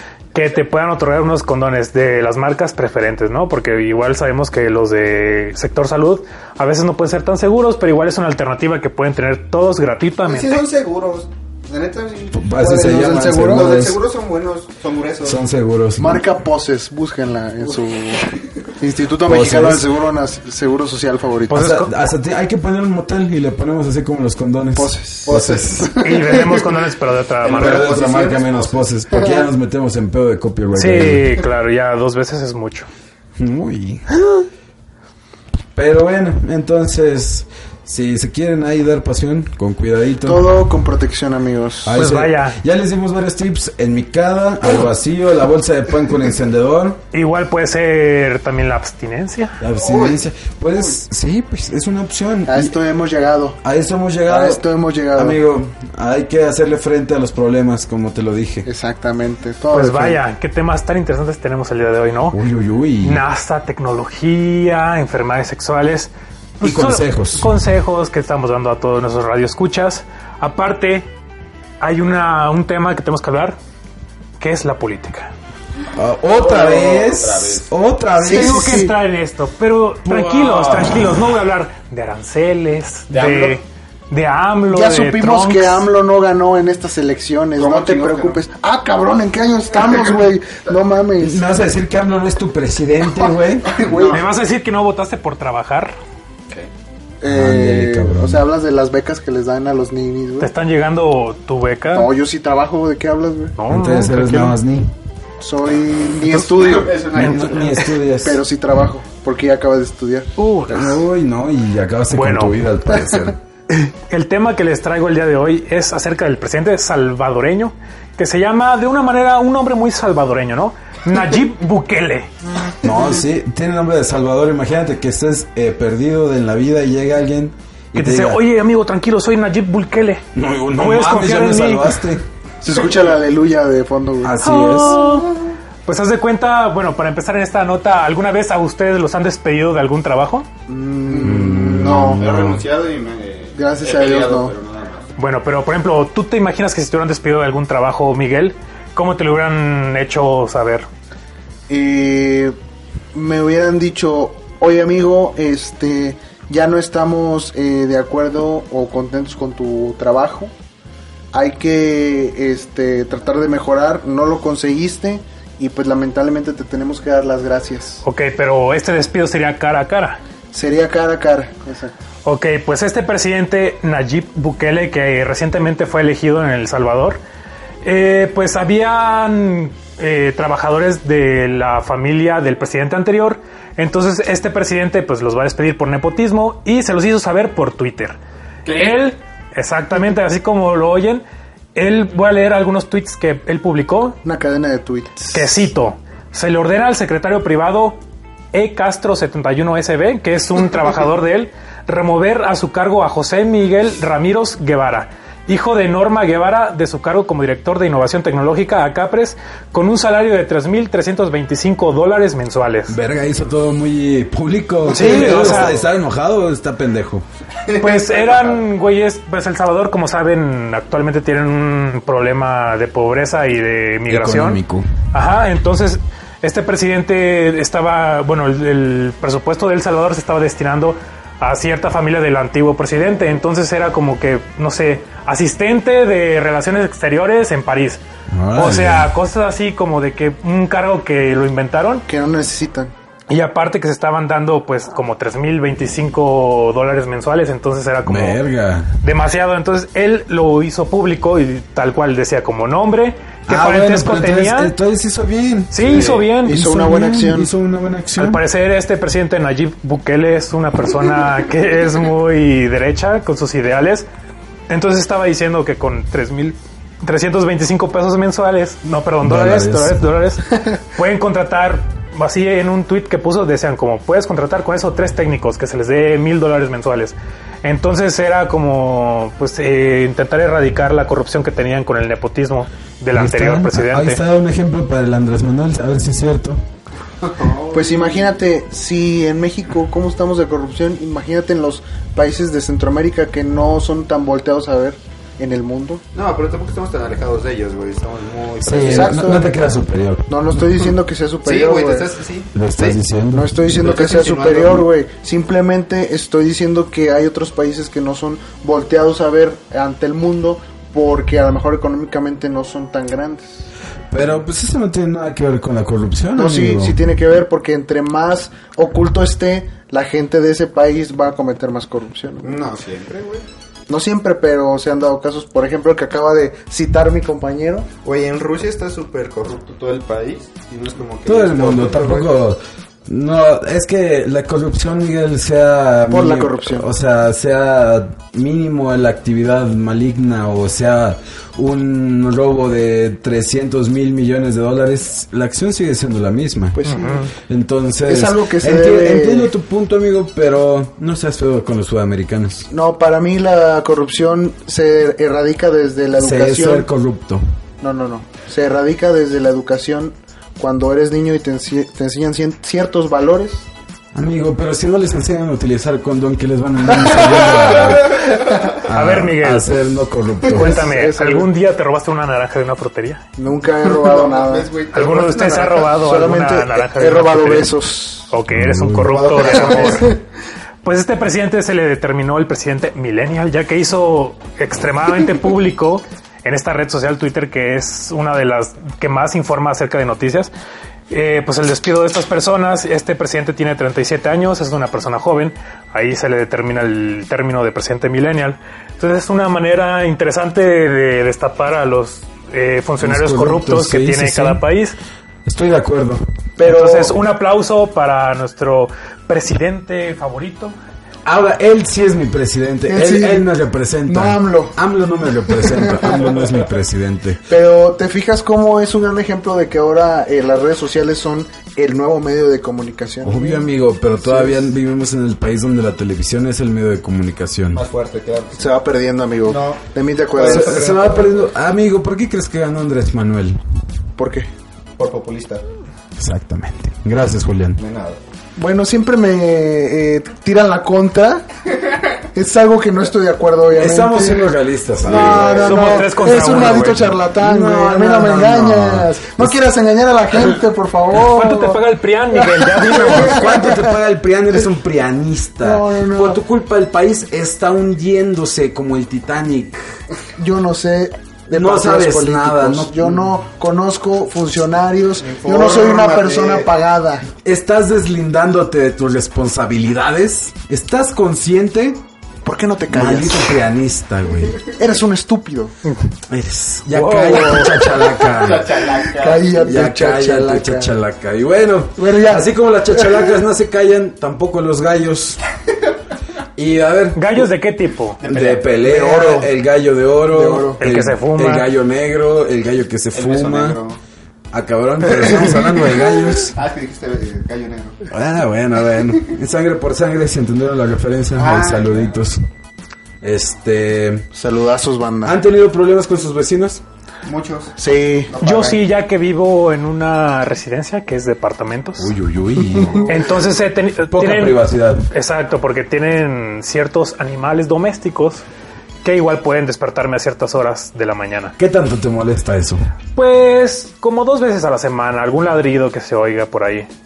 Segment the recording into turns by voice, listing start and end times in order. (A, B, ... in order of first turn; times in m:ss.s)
0:00.3-0:10.6 A
0:10.2-0:15.4 B
0:12.3-0:14.0 C
0:12.6-0:13.7 D
0:15.2-0:16.2 C
0:16.0-0:18.2 D
0:18.8-0:21.7 D
0:19.2-0:19.9 C
0:21.5-0:21.9 A
0:21.5-0:25.9 C
0:24.7-0:26.7 D
0:26.0-0:27.9 A
0:27.4-0:28.8 B
0:27.4-0:31.4 C
0:29.2-0:29.4 D
0:30.7-0:32.9 A
0:33.4-0:34.0 C
0:35.7-0:40.5 C
0:40.2-0:42.0 D
0:41.8-0:47.0 C
0:41.9-0:42.6 A
0:47.1-0:49.6 A
0:49.6-0:52.8 C
0:49.8-0:50.2 B
0:52.5-0:53.6 D
0:53.6-0:58.7 C
0:54.3-0:55.4 D
0:58.6-1:00.2 D
0:59.7-1:02.4 A
1:02.3-1:03.2 C
1:03.0-1:11.1 A
1:06.6-1:07.5 C
1:11.8-1:13.6 A
1:14.4-1:15.3 A
1:15.9-1:18.9 C
1:16.3-1:17.7 B
1:18.2-1:18.9 D
1:18.2-1:25.9 A
1:20.0-1:21.1 C
1:23.1-1:23.6 B
1:24.7-1:31.4 D
1:27.6-1:28.4 B
1:31.2-1:33.7 C
1:33.7-1:34.2 B
1:33.7-1:34.2 D
1:34.1-1:35.9 A
1:37.2-1:40.5 D
1:37.2-1:38.4 C
1:40.4-1:42.1 A
1:41.9-1:43.6 D
1:43.6-1:44.4 A
1:43.7-1:44.9 C
1:44.1-1:44.5 D
1:45.4-1:50.9 D
1:46.2-1:47.9 B
1:47.1-1:48.4 C
1:50.4-1:50.9 A
1:50.7-1:53.4 C
1:52.1-1:52.6 A
1:53.7-2:02.3 A
2:02.8-2:08.4 C
2:07.9-2:10.2 A
2:10.3-2:12.2 C
2:10.7-2:11.9 A
2:12.6-2:14.4 D
2:14.2-2:15.2 C
2:14.4-2:15.3 A
2:15.8-2:20.5 A
2:20.7-2:22.3 D
2:21.1-2:25.1 B
2:21.2-2:22.6 C
2:23.5-2:24.5 D
2:25.2-2:30.9 A
2:31.7-2:32.5 D
2:33.1-2:40.5 D
2:41.3-2:48.0 D
2:48.0-2:50.2 A
2:50.5-2:51.9 D
2:52.2-2:57.2 A
2:57.8-3:08.2 A
3:08.6-3:09.0 B
3:08.7-3:11.2 A
3:11.7-3:14.2 A
3:14.2-3:15.3 D
3:15.3-3:18.0 A
3:18.5-3:33.0 A
3:32.9-3:37.2 C
3:34.9-3:35.7 A
3:34.9-3:35.8 B
3:37.6-3:38.6 B
3:37.8-3:44.6 A
3:44.1-3:44.9 C
3:45.1-3:58.0 A
3:58.3-3:59.1 C
3:58.5-4:02.0 A
4:02.1-4:02.9 D
4:03.3-4:08.4 A
4:08.0-4:08.9 C
4:09.0-4:14.7 A
4:13.5-4:18.4 C
4:15.7-4:16.6 A
4:15.9-4:16.2 B
4:16.4-4:17.5 D
4:18.2-4:24.1 A
4:24.7-4:44.2 A
4:29.2-4:30.0 C
4:43.1-4:46.6 C
4:47.2-4:48.4 B
4:47.7-4:56.0 D
4:56.1-4:59.3 B
4:58.6-5:00.8 C
4:58.8-4:59.5 D
5:00.3-5:02.1 D
5:01.4-5:03.0 B
5:02.5-5:03.8 C
5:03.3-5:13.7 D
5:03.7-5:04.9 B
5:14.1-5:17.0 C
5:16.4-5:22.6 D
5:22.4-5:23.4 B
5:23.9-5:27.9 D
5:28.0-5:32.3 B
5:31.2-5:46.8 C
5:36.1-5:36.9 D
5:46.7-5:47.3 D
5:46.8-5:47.3 A
5:47.4-5:52.7 C
5:48.1-5:49.5 D
5:52.7-5:56.8 D
5:56.2-5:57.4 C
5:57.8-6:03.7 D
6:04.1-6:10.8 C
6:07.5-6:08.6 B
6:08.9-6:09.7 A
6:10.5-6:11.5 D
6:10.5-6:13.2 A
6:13.4-6:18.3 D
6:13.8-6:15.9 B
6:14.9-6:17.7 A
6:18.3-6:20.2 A
6:18.5-6:19.1 C
6:19.0-6:20.2 B
6:19.4-6:20.2 D
6:20.8-6:30.5 A
6:31.1-6:45.0 A
6:43.0-6:44.6 C
6:45.4-6:46.2 C
6:46.6-6:47.2 D
6:46.6-6:50.7 A
6:51.2-6:57.4 C
6:52.9-6:53.5 D
6:54.1-6:54.8 D
6:55.5-6:56.3 D
6:57.5-7:03.6 D
7:03.2-7:07.8 C
7:04.2-7:04.6 D
7:07.7-7:08.7 B
7:08.6-7:11.1 D
7:09.4-7:11.4 B
7:10.4-7:13.6 C
7:14.2-7:14.5 D
7:15.0-7:15.6 B
7:16.2-7:17.8 C
7:17.8-7:18.2 B
7:18.6-7:21.5 D
7:22.3-7:24.5 D
7:23.7-7:25.9 C
7:25.0-7:26.1 B
7:25.0-7:31.8 D
7:25.6-7:27.0 A
7:26.4-7:29.6 C
7:31.1-7:33.5 A
7:32.3-7:33.9 D
7:32.9-7:39.8 C
7:35.6-7:36.4 D
7:40.4-7:47.3 D
7:41.5-7:43.2 C
7:45.2-7:46.7 B
7:47.4-7:52.0 C
7:52.4-7:53.6 D
7:52.9-7:54.6 C
7:54.8-7:55.7 D
7:56.3-7:58.7 C
7:56.9-7:57.7 A
7:57.3-7:57.9 D
7:58.2-7:59.7 B
7:59.1-8:00.9 D
7:59.6-8:05.4 C
8:02.0-8:03.3 D
8:06.6-8:07.5 C
8:07.1-8:08.2 A
8:08.2-8:09.4 B
8:08.2-8:13.8 C
8:08.8-8:09.4 D
8:10.3-8:10.8 D
8:10.8-8:11.7 A
8:13.1-8:14.0 B
8:14.5-8:16.6 C
8:16.3-8:18.0 B
8:18.1-8:22.4 C
8:21.4-8:22.1 B
8:23.2-8:24.3 C
8:24.3-8:25.4 D
8:25.2-8:26.8 C
8:27.2-8:28.8 B
8:27.8-8:28.3 D
8:28.4-8:32.1 A
8:32.0-8:33.2 C
8:32.7-8:33.1 D
8:33.1-8:38.4 A
8:34.1-8:35.1 C
8:39.0-8:41.5 A
8:41.6-8:42.8 C
8:43.1-8:46.9 A